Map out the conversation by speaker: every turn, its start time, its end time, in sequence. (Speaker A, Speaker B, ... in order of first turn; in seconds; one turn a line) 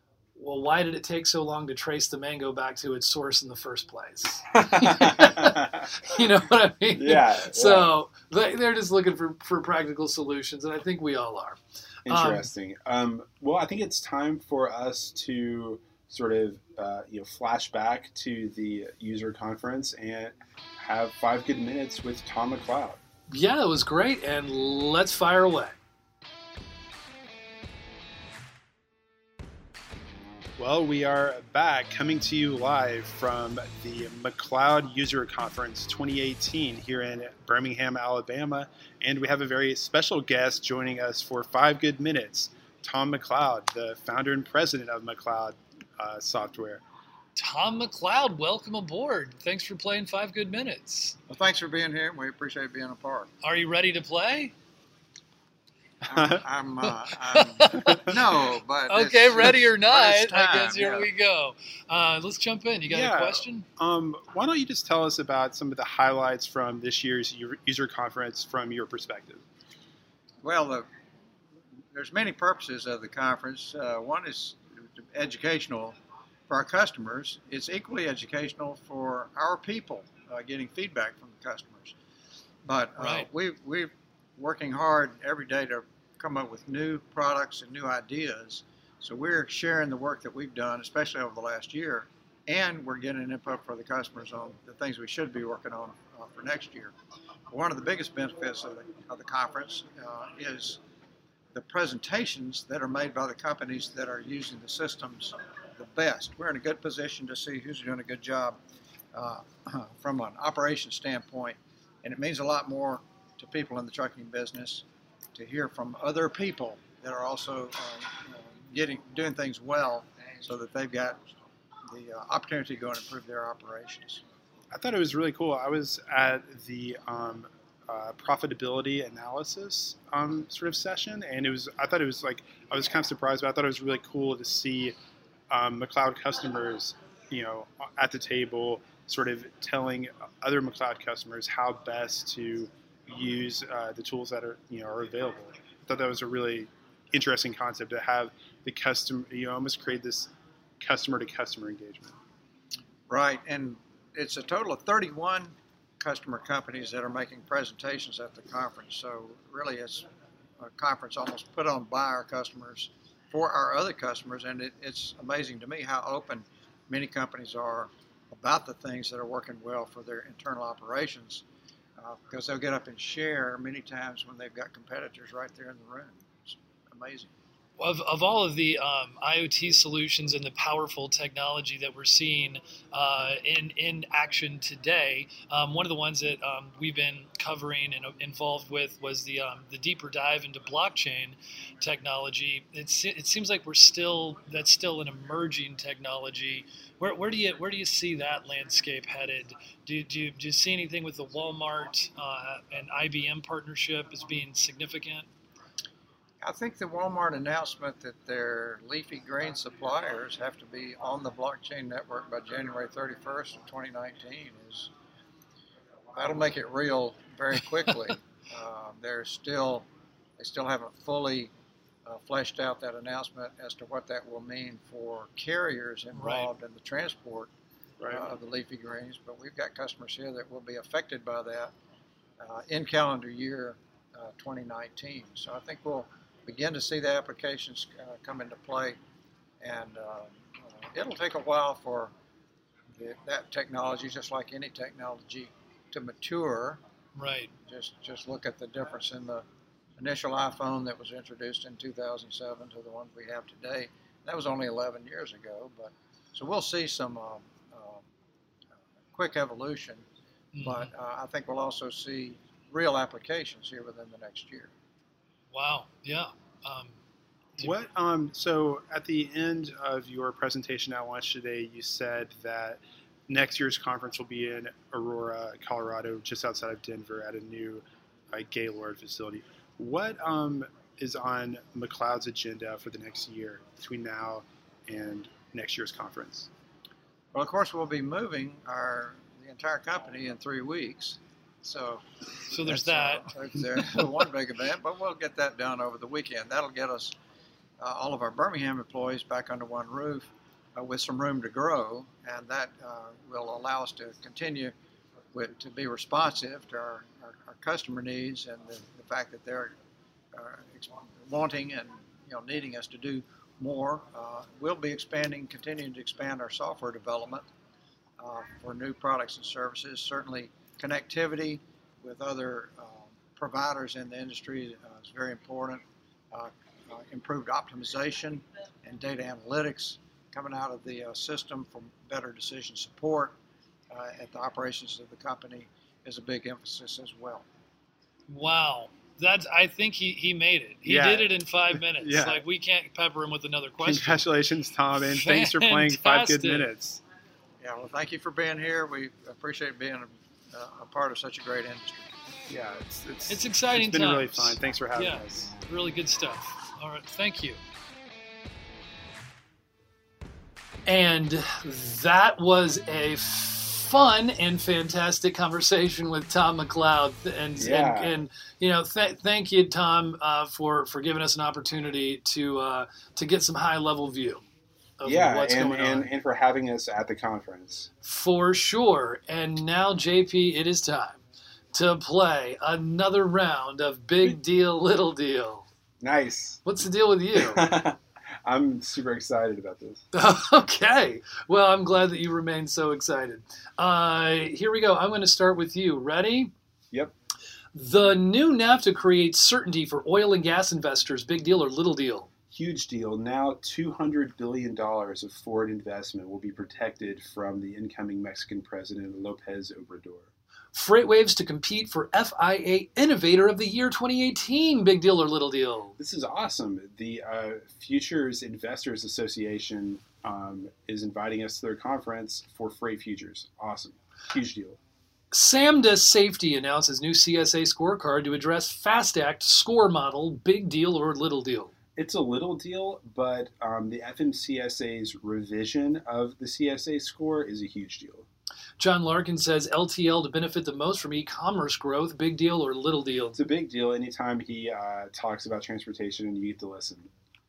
Speaker A: 0.3-12.5
Speaker B: 4.5-5.9
Speaker B: 6.9-7.9
Speaker B: 12.1-23.0
Speaker A: 23.3-25.8
Speaker B: 30.6-46.8
Speaker A: 47.4-51.2
Speaker C: 51.3-53.3
Speaker A: 53.4-54.5
Speaker C: 56.1-61.1
Speaker B: 56.1-56.4
Speaker A: 57.3-58.1
Speaker B: 57.7-58.1
Speaker A: 58.9-63.7
Speaker B: 62.9-69.4
Speaker C: 70.4-70.9
Speaker C: 71.9-76.0
Speaker C: 76.5-82.0
Speaker C: 82.7-96.9
Speaker A: 83.0-83.3
Speaker C: 97.5-100.8
Speaker C: 101.5-108.6
Speaker C: 109.1-121.2
Speaker C: 121.9-124.2
Speaker B: 124.7-134.9
Speaker B: 135.5-152.2
Speaker C: 153.1-160.1
Speaker C: 160.6-171.4
Speaker C: 172.0-177.3
Speaker A: 177.8-205.3
Speaker C: 206.4-214.9
Speaker C: 216.2-219.9
Speaker C: 220.4-221.5
Speaker C: 222.1-227.5
Speaker A: 226.2-226.5
Speaker C: 228.1-231.7
Speaker C: 232.4-239.0
Speaker C: 239.6-242.1
Speaker C: 243.0-246.8
Speaker A: 247.2-247.5
Speaker C: 247.7-249.4
Speaker C: 250.0-258.1
Speaker C: 259.1-260.0
Speaker A: 260.5-260.9
Speaker C: 260.6-264.7
Speaker A: 265.5-267.0
Speaker B: 267.6-286.5
Speaker C: 287.3-297.1
Speaker A: 292.5-294.1
Speaker C: 297.8-304.7
Speaker C: 305.3-309.7
Speaker C: 310.3-317.5
Speaker C: 318.2-333.4
Speaker C: 333.9-337.4
Speaker A: 338.3-344.2
Speaker B: 340.9-341.3
Speaker B: 341.9-342.4
Speaker B: 343.8-347.0
Speaker A: 344.9-346.7
Speaker C: 347.6-352.1
Speaker B: 352.5-355.5
Speaker A: 353.3-357.6
Speaker A: 360.9-374.4
Speaker B: 367.6-368.2
Speaker A: 375.0-376.1
Speaker B: 375.1-377.9
Speaker A: 378.0-381.2
Speaker A: 381.7-385.7
Speaker B: 386.0-386.6
Speaker A: 386.6-387.7
Speaker B: 387.3-390.1
Speaker A: 390.1-396.5
Speaker A: 397.7-402.3
Speaker B: 402.5-410.3
Speaker A: 410.7-415.9
Speaker B: 416.0-424.8
Speaker A: 425.3-431.7
Speaker B: 431.9-438.3
Speaker A: 438.8-443.4
Speaker B: 443.4-447.1